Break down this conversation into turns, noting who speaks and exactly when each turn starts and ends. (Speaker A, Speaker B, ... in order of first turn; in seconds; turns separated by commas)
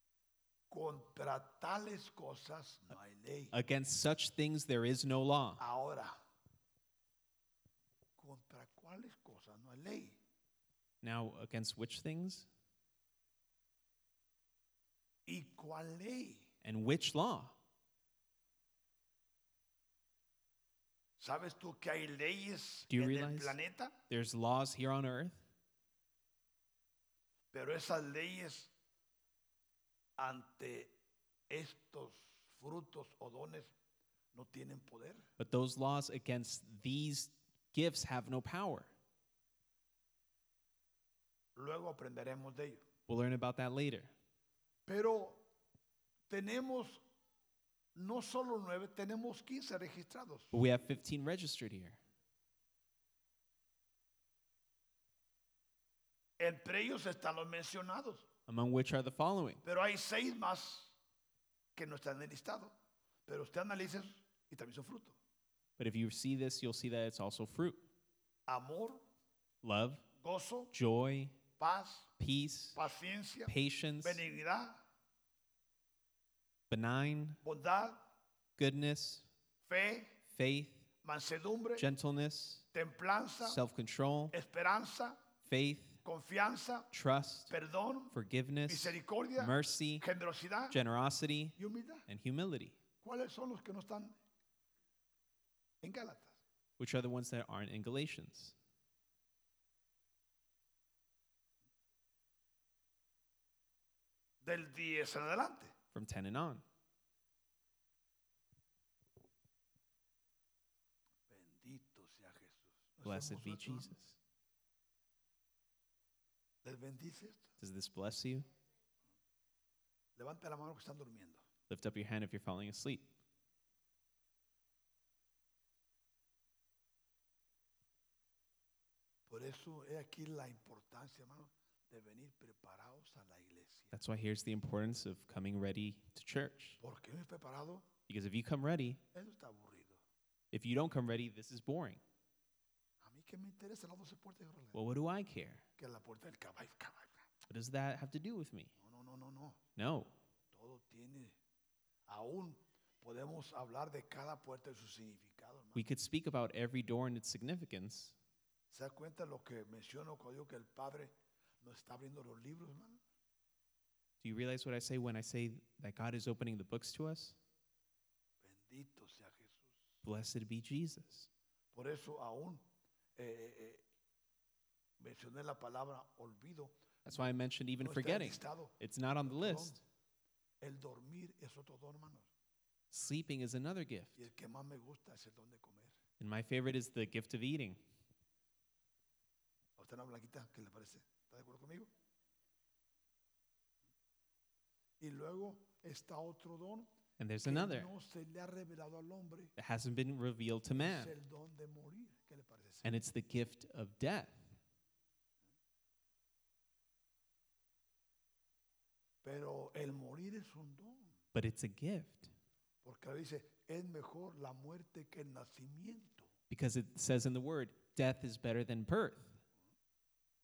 Speaker A: 0.7-3.5, Speaker B: 3.5-5.6, Speaker A: 5.6-6.1, Speaker A: 8.2-10.2, Speaker B: 11.0-12.5, Speaker A: 15.2-16.5, Speaker B: 16.6-17.6, Speaker A: 21.2-23.9, Speaker B: 22.9-23.6, Speaker B: 24.1-25.4, Speaker A: 27.5-28.7, Speaker A: 30.2-30.9, Speaker A: 31.5-33.7, Speaker A: 34.3-35.2, Speaker B: 35.4-38.9, Speaker A: 41.5-42.8, Speaker B: 43.1-44.1, Speaker A: 44.9-45.4, Speaker A: 46.3-47.0, Speaker A: 47.9-50.6, Speaker B: 50.5-52.0, Speaker A: 56.4-58.3, Speaker B: 58.5-59.6, Speaker A: 59.6-60.9, Speaker A: 61.7-62.7, Speaker A: 63.3-65.2, Speaker B: 65.8-67.8, Speaker A: 68.5-69.0, Speaker B: 69.6-70.0, Speaker A: 70.2-70.7, Speaker B: 70.7-71.4, Speaker A: 71.6-72.1, Speaker B: 72.2-72.8, Speaker A: 72.7-74.8, Speaker B: 73.5-74.2, Speaker B: 76.7-77.4, Speaker A: 77.4-78.0, Speaker B: 78.6-79.3, Speaker A: 79.6-80.2, Speaker B: 80.3-80.9, Speaker A: 81.0-81.9, Speaker B: 81.8-82.7, Speaker A: 82.7-83.6, Speaker B: 83.4-84.3, Speaker A: 84.3-85.2, Speaker B: 85.4-86.0, Speaker A: 86.0-86.9, Speaker B: 86.9-87.5, Speaker A: 87.5-88.2, Speaker B: 88.1-90.0, Speaker A: 88.7-90.8, Speaker B: 90.7-92.8, Speaker A: 91.6-92.1, Speaker A: 93.0-94.2, Speaker A: 95.8-96.4, Speaker B: 96.8-98.5, Speaker A: 104.4-105.7, Speaker B: 105.9-106.6, Speaker A: 111.3-113.9, Speaker B: 113.0-114.2, Speaker A: 116.6-117.5, Speaker B: 117.6-118.5, Speaker A: 120.2-121.4, Speaker B: 121.7-123.1, Speaker A: 129.3-134.0, Speaker B: 133.9-136.8, Speaker A: 136.8-137.9, Speaker B: 138.1-139.0, Speaker A: 139.1-140.0, Speaker B: 140.5-142.0, Speaker A: 143.0-144.8, Speaker B: 144.7-145.6, Speaker A: 145.8-147.2, Speaker B: 147.5-148.7, Speaker A: 148.8-149.6, Speaker B: 149.8-150.2, Speaker A: 150.5-151.4, Speaker A: 152.1-155.8, Speaker B: 155.8-158.2, Speaker A: 158.7-163.0, Speaker B: 164.2-167.4, Speaker A: 168.4-169.8, Speaker B: 170.0-171.3, Speaker A: 171.7-172.6, Speaker A: 173.2-173.8, Speaker A: 175.0-176.8, Speaker B: 177.0-179.8, Speaker A: 177.8-179.8, Speaker A: 180.6-182.3, Speaker B: 182.9-184.2, Speaker A: 184.2-185.9, Speaker B: 186.2-187.8, Speaker A: 189.8-191.9, Speaker A: 195.0-196.9, Speaker B: 197.2-197.9, Speaker A: 197.4-199.5, Speaker B: 199.6-201.2, Speaker A: 200.7-203.0, Speaker B: 202.8-204.5, Speaker A: 209.2-211.2, Speaker B: 211.3-212.3, Speaker A: 212.8-216.3, Speaker B: 216.5-219.4